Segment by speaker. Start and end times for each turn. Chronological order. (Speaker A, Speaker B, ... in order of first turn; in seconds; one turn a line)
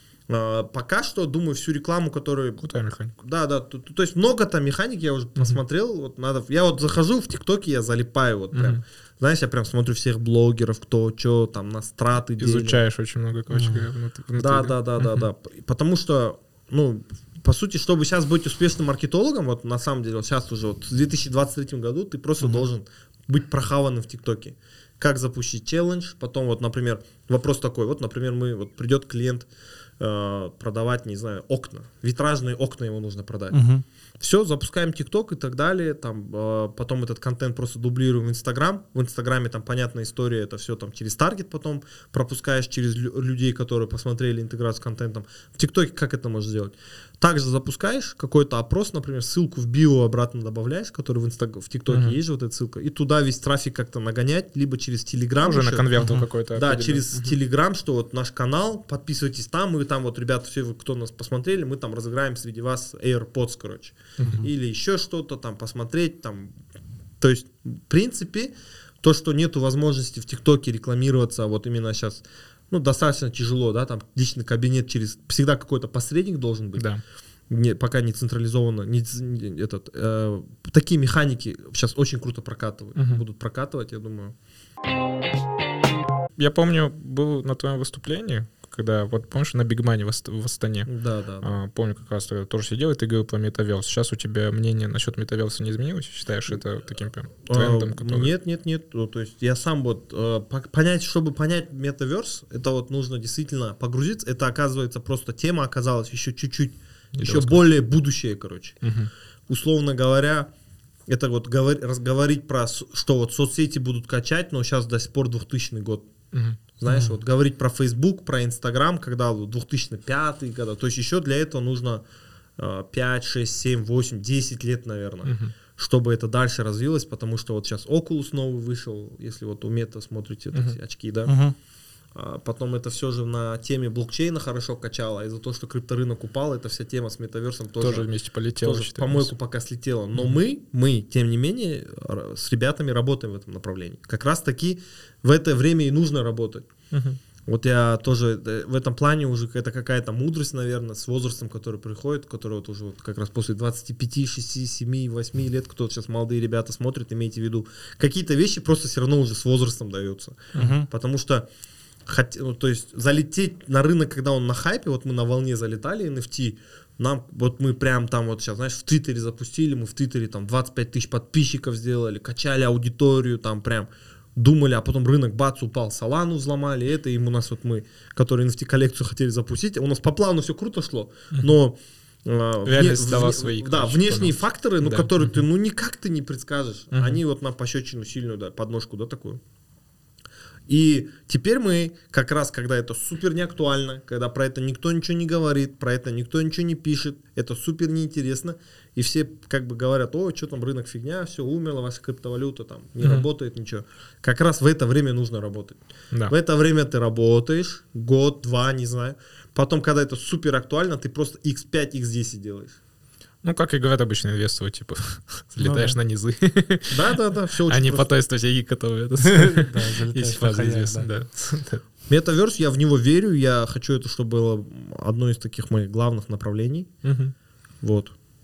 Speaker A: 0.3-2.6
Speaker B: 2.6-3.1
Speaker A: 3.1-12.8
Speaker B: 8.5-8.8
Speaker B: 12.4-15.3
Speaker C: 13.5-13.9
Speaker A: 14.4-29.5
Speaker A: 30.0-33.6
Speaker C: 33.5-33.8
Speaker A: 34.2-55.9
Speaker B: 51.9-52.2
Speaker B: 55.4-57.4
Speaker C: 56.0-56.2
Speaker A: 56.5-66.5
Speaker B: 64.2-64.4
Speaker A: 67.2-76.8
Speaker B: 76.8-77.0
Speaker A: 77.5-84.3
Speaker B: 83.0-83.2
Speaker B: 86.4-98.3
Speaker A: 90.8-91.5
Speaker A: 97.4-108.8
Speaker B: 107.2-107.6
Speaker B: 108.8-109.1
Speaker A: 109.5-110.5
Speaker A: 111.1-116.1
Speaker B: 116.3-116.6
Speaker A: 116.8-122.0
Speaker C: 116.9-117.1
Speaker A: 122.6-131.3
Speaker B: 125.2-125.5
Speaker C: 131.2-131.6
Speaker A: 132.1-146.7
Speaker B: 137.8-139.3
Speaker B: 146.9-147.2
Speaker A: 147.4-161.4
Speaker C: 160.6-160.9
Speaker A: 162.1-189.4
Speaker B: 182.7-185.1
Speaker B: 186.9-187.2
Speaker A: 190.7-212.8
Speaker B: 203.0-203.3
Speaker B: 213.4-221.8
Speaker C: 215.6-216.0
Speaker A: 216.9-218.1
Speaker C: 219.2-221.1
Speaker A: 222.1-226.9
Speaker B: 227.0-227.3
Speaker A: 227.8-228.1